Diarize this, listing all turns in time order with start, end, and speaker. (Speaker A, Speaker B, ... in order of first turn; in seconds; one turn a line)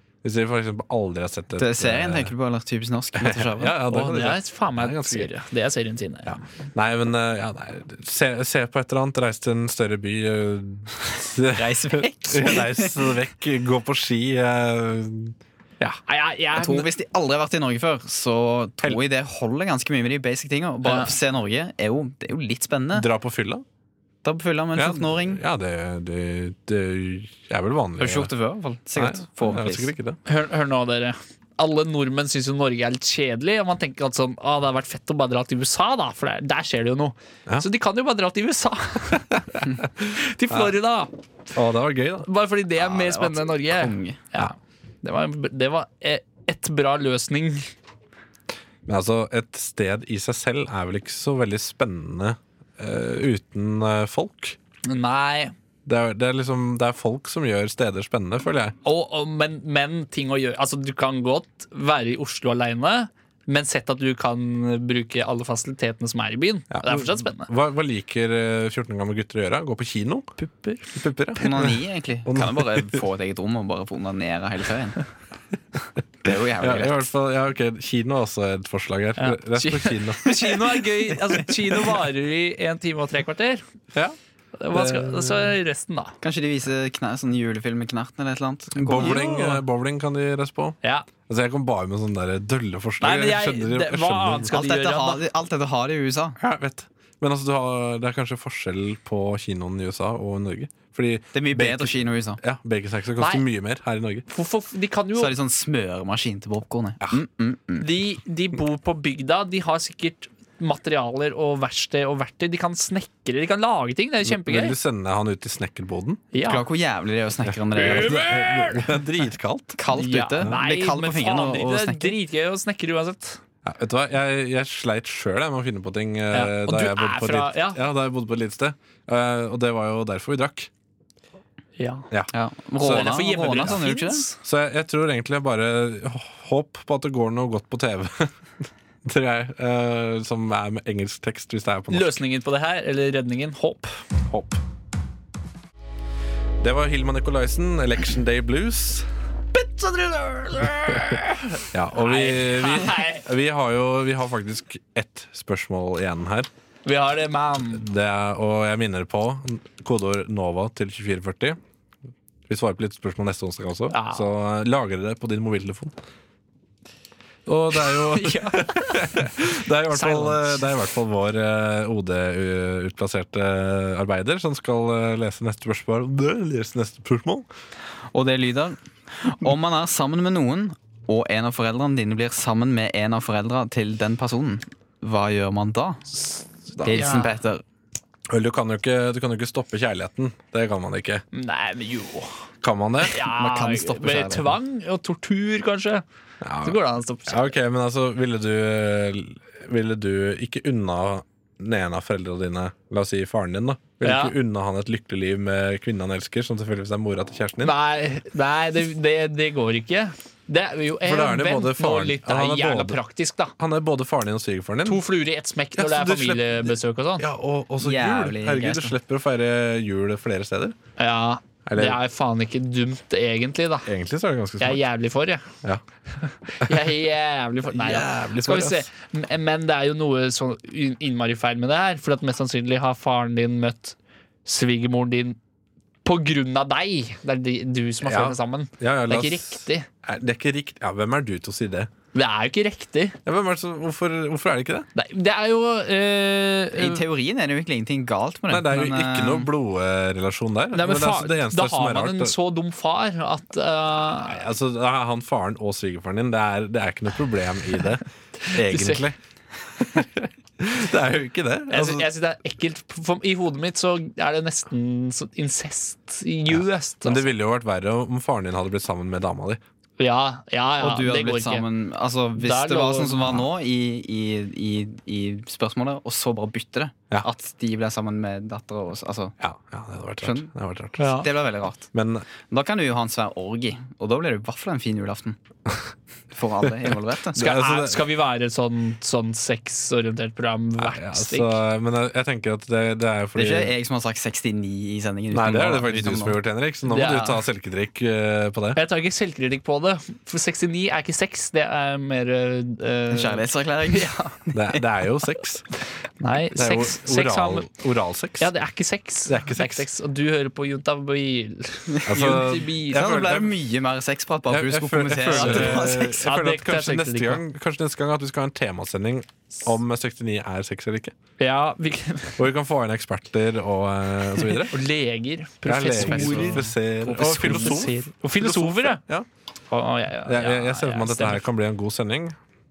Speaker A: 0.2-2.3
Speaker B: 1.6-3.8
Speaker A: 3.1-5.3
Speaker C: 3.9-6.4
Speaker A: 6.2-16.0
Speaker B: 11.5-13.1
Speaker C: 16.1-16.9
Speaker B: 16.6-23.1
Speaker C: 20.8-21.1
Speaker A: 22.9-23.6
Speaker B: 24.2-25.4
Speaker A: 24.7-28.3
Speaker B: 28.0-29.9
Speaker A: 28.9-30.2
Speaker C: 30.2-41.1
Speaker A: 39.5-40.7
Speaker A: 41.5-42.3
Speaker C: 42.2-47.7
Speaker B: 42.8-44.2
Speaker A: 48.9-54.6
Speaker C: 54.8-55.5
Speaker A: 55.9-58.7
Speaker C: 58.8-67.5
Speaker A: 66.7-70.3
Speaker C: 70.4-71.0
Speaker A: 70.9-73.0
Speaker B: 71.4-75.0
Speaker B: 76.2-77.0
Speaker A: 76.6-80.8
Speaker C: 79.2-83.6
Speaker C: 84.6-86.1
Speaker A: 84.7-85.5
Speaker B: 86.2-89.3
Speaker A: 88.7-94.6
Speaker C: 89.0-89.6
Speaker C: 93.0-95.2
Speaker B: 94.5-96.4
Speaker A: 96.4-104.2
Speaker B: 101.3-102.4
Speaker C: 103.2-103.4
Speaker C: 104.3-105.3
Speaker B: 105.1-107.9
Speaker C: 107.8-114.7
Speaker A: 114.2-116.2
Speaker C: 116.3-116.6
Speaker B: 116.4-118.2
Speaker A: 117.5-119.8
Speaker C: 117.8-118.9
Speaker B: 119.8-122.2
Speaker C: 119.9-123.4
Speaker A: 123.6-130.7
Speaker C: 126.3-127.8
Speaker C: 131.8-132.1
Speaker A: 132.1-133.8
Speaker B: 132.3-134.2
Speaker C: 132.8-134.4
Speaker A: 134.4-138.3
Speaker A: 139.0-142.2
Speaker C: 141.9-143.9
Speaker A: 144.3-144.6
Speaker A: 146.6-149.1
Speaker C: 149.5-153.2
Speaker A: 151.7-156.5
Speaker C: 156.8-157.8
Speaker A: 157.7-161.6
Speaker A: 162.5-165.9
Speaker C: 163.9-164.3
Speaker A: 167.4-177.5
Speaker C: 167.8-169.2
Speaker C: 169.9-170.6
Speaker B: 178.1-186.0
Speaker C: 186.8-187.3
Speaker B: 186.8-187.6
Speaker A: 188.3-191.2
Speaker C: 191.3-192.4
Speaker A: 192.6-193.2
Speaker C: 193.0-196.0
Speaker B: 193.4-194.6
Speaker A: 196.4-207.8
Speaker C: 196.6-197.5
Speaker C: 204.0-204.3
Speaker C: 207.6-213.5
Speaker A: 211.0-213.0
Speaker A: 213.6-215.0
Speaker C: 214.8-217.2
Speaker A: 215.8-220.8
Speaker B: 217.8-218.9
Speaker C: 221.0-223.9
Speaker A: 221.7-222.0
Speaker A: 223.8-224.8
Speaker C: 224.6-225.5
Speaker C: 226.2-235.4
Speaker A: 227.7-228.9
Speaker C: 236.0-239.9
Speaker A: 238.0-241.9
Speaker C: 242.1-243.2
Speaker A: 243.2-244.9
Speaker C: 244.9-247.0
Speaker B: 246.7-249.5
Speaker A: 248.5-252.3
Speaker C: 250.7-254.4
Speaker A: 254.2-259.2
Speaker C: 258.4-259.0
Speaker A: 259.8-262.1
Speaker C: 261.7-267.2
Speaker A: 266.5-269.6
Speaker C: 270.0-271.6
Speaker B: 270.8-279.4
Speaker C: 272.4-273.4
Speaker A: 279.4-281.2
Speaker B: 280.2-280.5
Speaker C: 281.0-281.3
Speaker B: 281.0-281.9
Speaker A: 281.9-282.2
Speaker B: 282.5-285.4
Speaker B: 286.3-287.4
Speaker A: 287.3-288.0
Speaker C: 287.3-291.6
Speaker A: 290.8-293.7
Speaker B: 293.4-296.4
Speaker A: 295.3-298.8
Speaker C: 296.9-297.3
Speaker B: 296.9-297.4
Speaker C: 298.7-304.3
Speaker B: 303.1-304.8
Speaker A: 304.5-305.6
Speaker C: 306.2-307.7
Speaker A: 306.5-308.5
Speaker C: 308.4-313.1
Speaker A: 309.3-309.9
Speaker B: 311.9-316.2
Speaker A: 312.1-313.5
Speaker A: 314.5-321.1
Speaker C: 315.3-317.4
Speaker C: 321.4-322.3
Speaker A: 322.4-324.8
Speaker C: 324.7-329.0
Speaker A: 325.6-329.3
Speaker B: 325.9-327.9
Speaker C: 329.7-331.4
Speaker A: 330.2-332.4